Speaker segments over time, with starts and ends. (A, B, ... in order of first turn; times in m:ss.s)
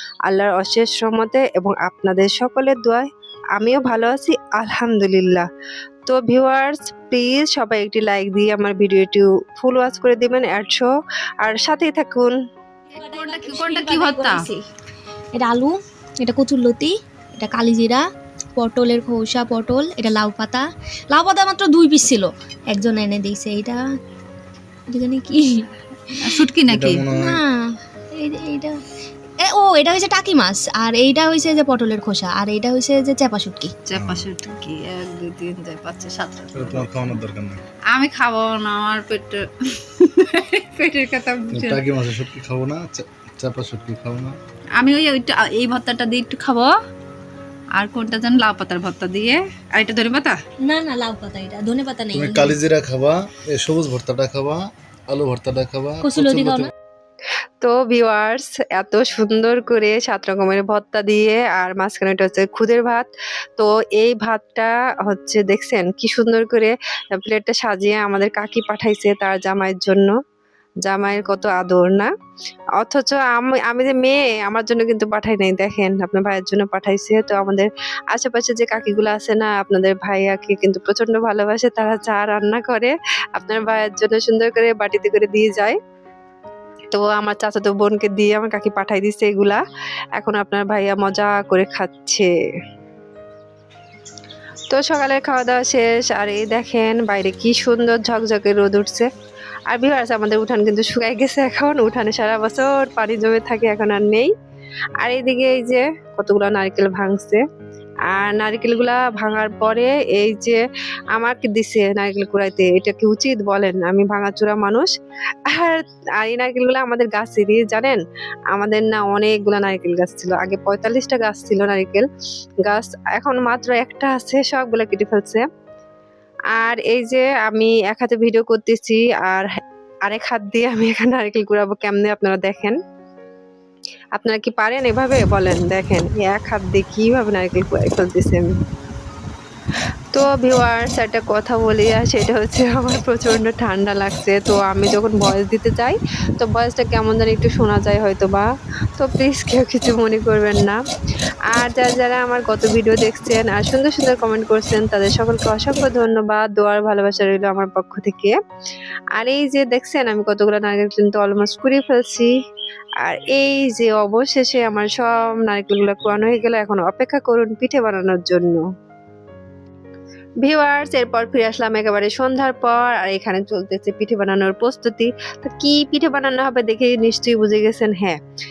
0:00.2-0:05.4 A
0:06.1-0:12.4 A
0:13.0-0:14.6 B
0:13.2-0:14.4 A
0:13.4-0:14.4 C
0:15.3-0:18.0 B
0:18.6-0:23.8 B
0:24.9-0:26.4 B
0:26.2-0:27.0 C
0:26.6-0:27.4 D
0:27.1-0:28.8 B
0:29.4-0:33.7 B
0:33.9-0:36.9 C
0:33.9-0:36.3 A
0:33.9-0:34.2 D
0:36.5-0:37.6 D
0:37.9-0:39.2 C
0:38.1-0:39.3 A
0:40.3-0:41.4 C
0:40.8-0:41.7 A
0:41.5-0:44.4 D
0:44.8-0:46.7 C
0:45.1-0:45.7 A
0:47.8-0:49.4 C
0:47.8-0:50.3 A
0:50.0-0:50.3 C
0:50.6-0:52.6 B
0:52.1-0:56.7 D
0:56.0-0:56.7 B
0:57.6-1:10.1 A
1:10.8-1:12.1 A
1:12.8-1:25.8 A
1:26.9-1:29.6 A
1:30.2-1:32.3 A
1:34.7-1:39.1 A
1:39.7-1:44.3 A
1:45.0-1:47.4 A
1:48.1-1:50.6 A
1:51.1-1:54.9 A
1:55.5-1:58.0 A
1:58.5-2:02.1 A
2:02.6-2:05.4 A
2:06.5-2:09.5 A
2:10.1-2:12.8 A
2:14.2-2:18.6 A
2:20.1-2:28.5 A
2:29.0-2:30.8 A
2:31.5-2:38.4 A
2:39.2-2:42.3 A
2:43.0-2:48.6 A
2:50.4-2:58.2 A